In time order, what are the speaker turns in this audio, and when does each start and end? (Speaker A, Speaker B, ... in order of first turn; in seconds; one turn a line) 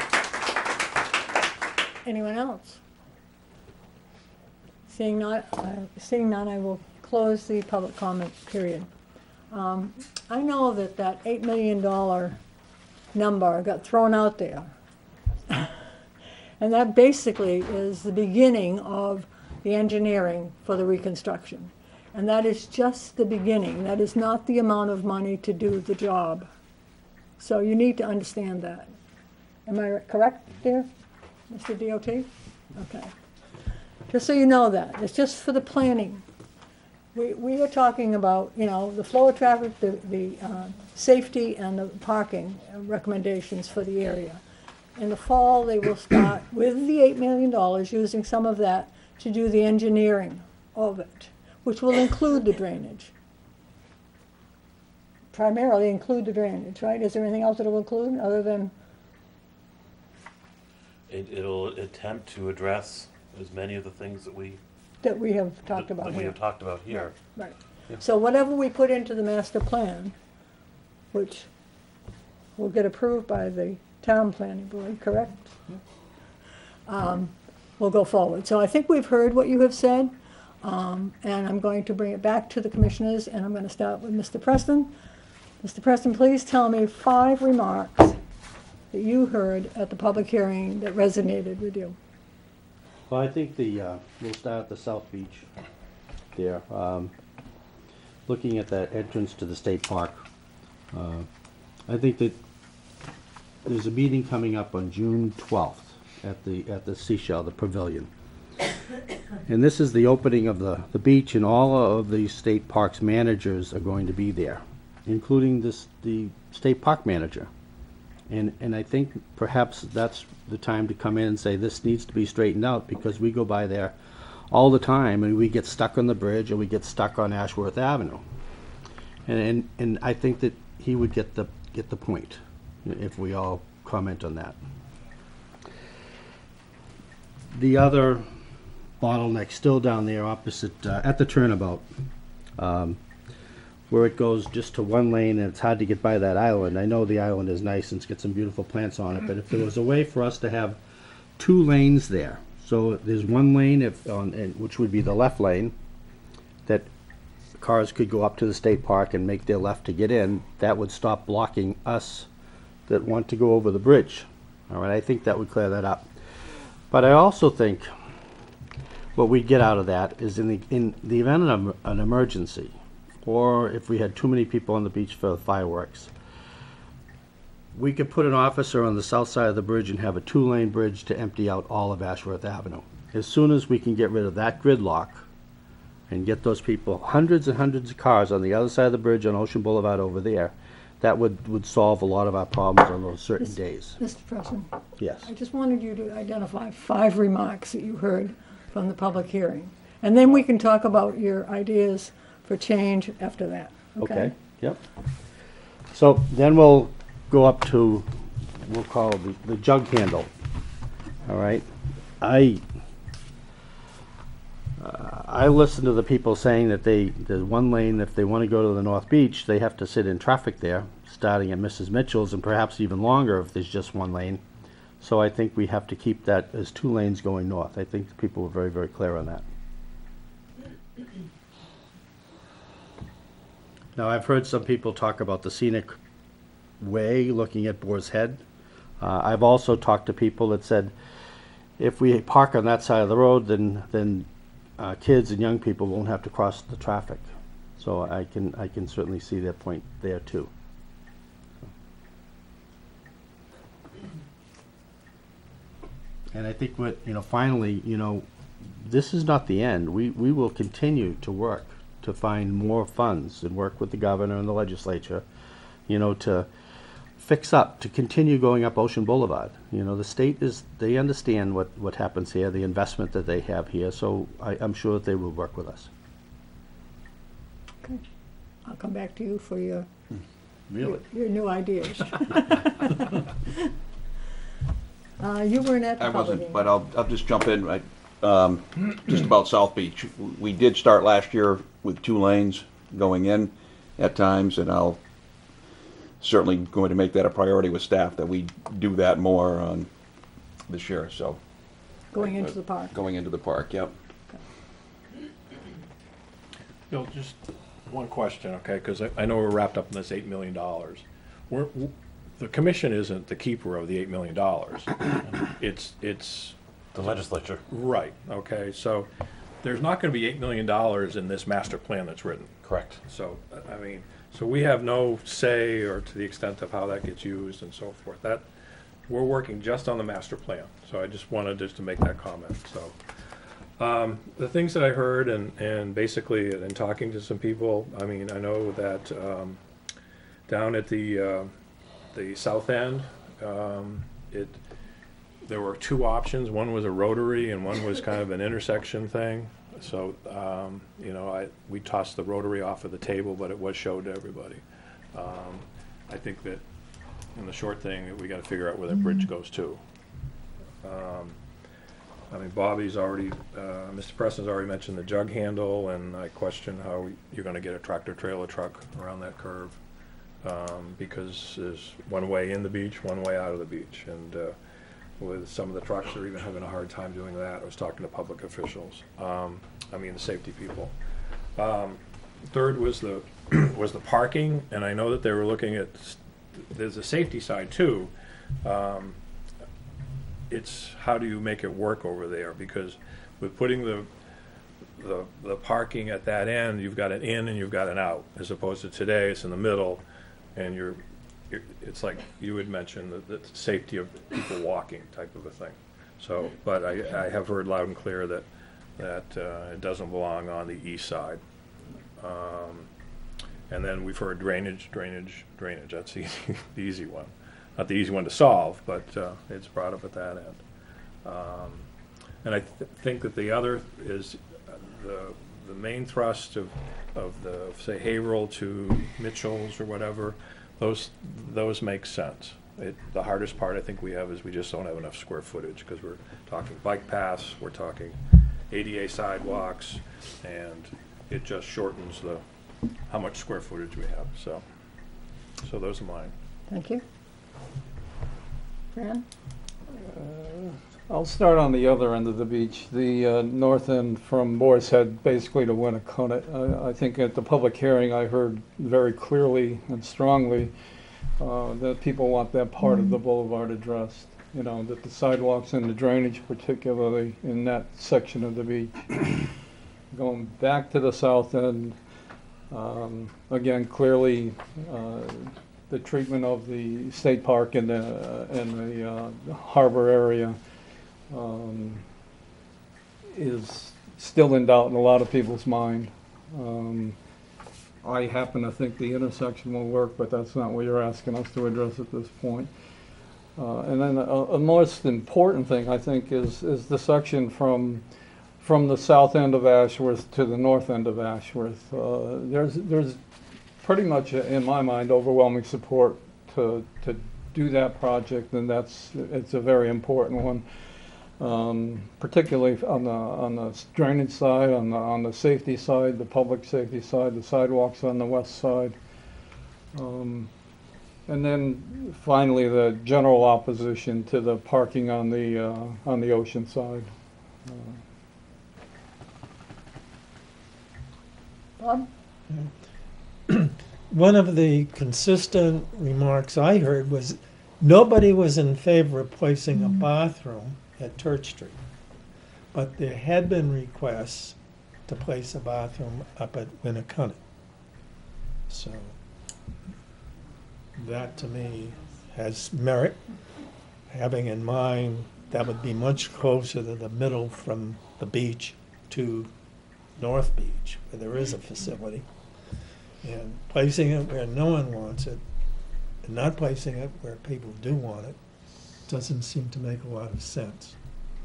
Speaker A: 2.0-2.8
Speaker A: 4.9-8.9
Speaker A: 9.5-12.4
Speaker A: 13.1-14.7
Speaker A: 15.5-15.7
Speaker A: 16.6-26.5
Speaker A: 27.4-28.9
Speaker A: 29.6-30.9
Speaker A: 31.5-33.1
Speaker A: 34.1-36.2
Speaker A: 37.1-44.4
Speaker A: 45.0-53.1
Speaker A: 55.3-58.7
Speaker B: 61.1-64.6
Speaker A: 65.0-66.4
Speaker B: 65.7-67.1
Speaker A: 66.9-70.1
Speaker A: 71.1-71.5
Speaker A: 72.6-75.6
Speaker A: 76.9-84.9
Speaker A: 85.6-88.2
Speaker A: 88.9-92.0
Speaker C: 93.1-95.5
Speaker C: 96.3-97.1
Speaker C: 98.3-100.2
Speaker C: 100.9-101.3
Speaker C: 101.9-102.4
Speaker C: 103.6-108.1
Speaker C: 109.5-117.5
Speaker C: 118.3-124.0
Speaker C: 124.5-128.2
Speaker C: 129.3-134.6
Speaker C: 137.5-138.3
Speaker C: 139.0-141.9
Speaker C: 142.6-143.0
Speaker C: 143.9-150.8
Speaker C: 151.4-155.7
Speaker C: 157.6-162.3
Speaker C: 162.9-166.1
Speaker C: 166.9-167.9
Speaker C: 169.1-176.1
Speaker C: 177.7-185.2
Speaker C: 186.1-194.0
Speaker A: 193.4-194.7
Speaker C: 195.0-195.3
Speaker A: 195.2-204.3
Speaker C: 204.0-204.8
Speaker C: 205.9-210.3
Speaker C: 211.2-211.7
Speaker C: 212.2-212.6
Speaker C: 214.8-224.4
Speaker C: 225.0-229.4
Speaker C: 233.9-235.9
Speaker C: 236.8-238.4
Speaker C: 239.0-240.9
Speaker C: 241.8-244.3
Speaker C: 244.8-250.5
Speaker C: 256.3-265.2
Speaker C: 265.9-266.5
Speaker C: 267.2-275.9
Speaker A: 278.6-279.9
Speaker A: 280.8-283.0
Speaker A: 285.2-286.7
Speaker D: 286.0-295.0
Speaker D: 296.2-299.9
Speaker D: 300.7-301.4
Speaker A: 302.1-302.9
Speaker D: 302.1-303.9
Speaker E: 306.9-314.9
Speaker E: 315.6-316.6
Speaker B: 316.9-317.6
Speaker E: 317.7-319.1
Speaker E: 319.6-322.5
Speaker B: 322.6-323.0
Speaker E: 323.1-328.5
Speaker E: 329.1-332.9
Speaker E: 333.8-339.6
Speaker E: 340.5-341.5
Speaker E: 342.1-344.6
Speaker E: 345.4-354.6
Speaker E: 355.1-356.6
Speaker E: 357.3-359.8
Speaker E: 360.8-361.4
Speaker E: 362.3-369.7
Speaker E: 370.4-374.6
Speaker E: 375.2-380.9
Speaker E: 381.6-388.1
Speaker E: 388.6-389.2
Speaker E: 390.5-394.1
Speaker E: 395.0-400.0
Speaker E: 400.6-411.4
Speaker E: 412.2-412.9
Speaker E: 413.7-420.6
Speaker E: 421.2-421.9
Speaker E: 422.4-438.2
Speaker E: 438.7-442.4
Speaker E: 443.1-444.6
Speaker E: 445.6-446.3
Speaker A: 446.7-447.0
Speaker A: 448.9-449.2
Speaker F: 450.0-460.7
Speaker F: 461.4-469.5
Speaker F: 470.1-472.0
Speaker F: 472.7-480.6
Speaker F: 481.3-482.1
Speaker F: 483.3-487.2
Speaker F: 488.0-492.7
Speaker F: 493.6-498.0
Speaker F: 498.6-503.2
Speaker F: 503.8-510.6
Speaker F: 511.4-519.0
Speaker F: 519.9-520.5
Speaker F: 521.3-527.1
Speaker F: 527.6-528.0
Speaker A: 531.8-532.1
Speaker G: 533.5-541.8
Speaker G: 542.7-544.5
Speaker G: 545.1-547.4
Speaker G: 548.7-549.1
Speaker G: 551.0-553.2
Speaker G: 554.1-559.5
Speaker G: 560.2-562.2
Speaker G: 563.2-565.4
Speaker G: 566.2-568.4
Speaker G: 569.0-571.0